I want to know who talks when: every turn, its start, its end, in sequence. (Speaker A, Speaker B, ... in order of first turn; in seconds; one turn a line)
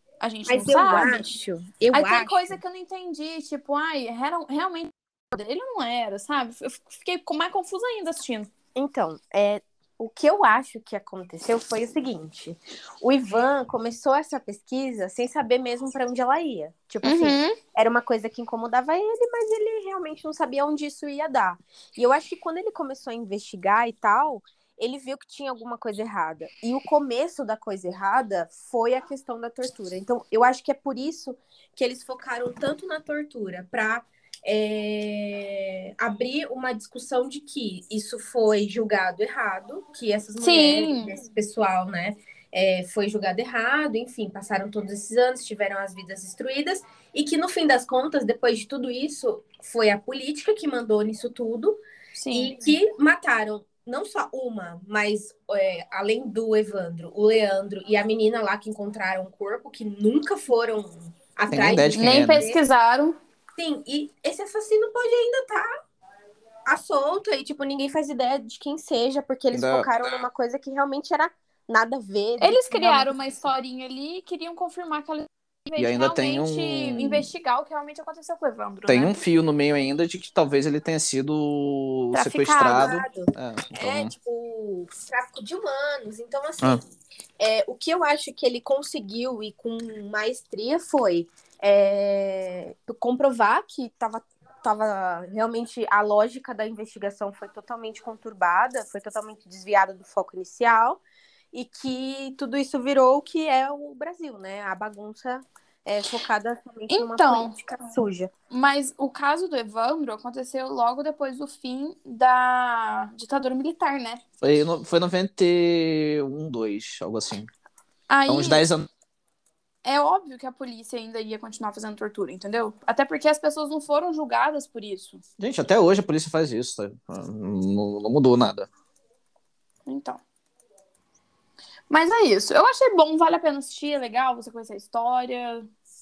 Speaker A: 0.2-1.3
Speaker B: 0.5-2.6
Speaker A: 1.9-8.5
Speaker B: 8.8-51.8
Speaker A: 17.0-17.6
Speaker A: 40.4-41.1
Speaker A: 52.1-52.5
Speaker B: 52.3-62.6
Speaker C: 61.5-62.4
Speaker A: 61.9-63.2
Speaker B: 63.5-65.7
Speaker B: 66.7-73.1
Speaker C: 69.5-69.9
Speaker A: 72.4-79.1
Speaker C: 75.8-77.3
Speaker C: 78.9-84.1
Speaker A: 82.1-82.9
Speaker B: 82.4-86.8
Speaker B: 87.4-101.0
Speaker B: 101.5-108.3
Speaker A: 106.9-107.5
Speaker A: 108.5-114.2
Speaker C: 114.4-117.5
Speaker A: 118.1-118.7
Speaker C: 118.3-118.9
Speaker A: 119.8-125.2
Speaker C: 125.4-128.7
Speaker A: 129.8-130.2
Speaker A: 131.9-135.7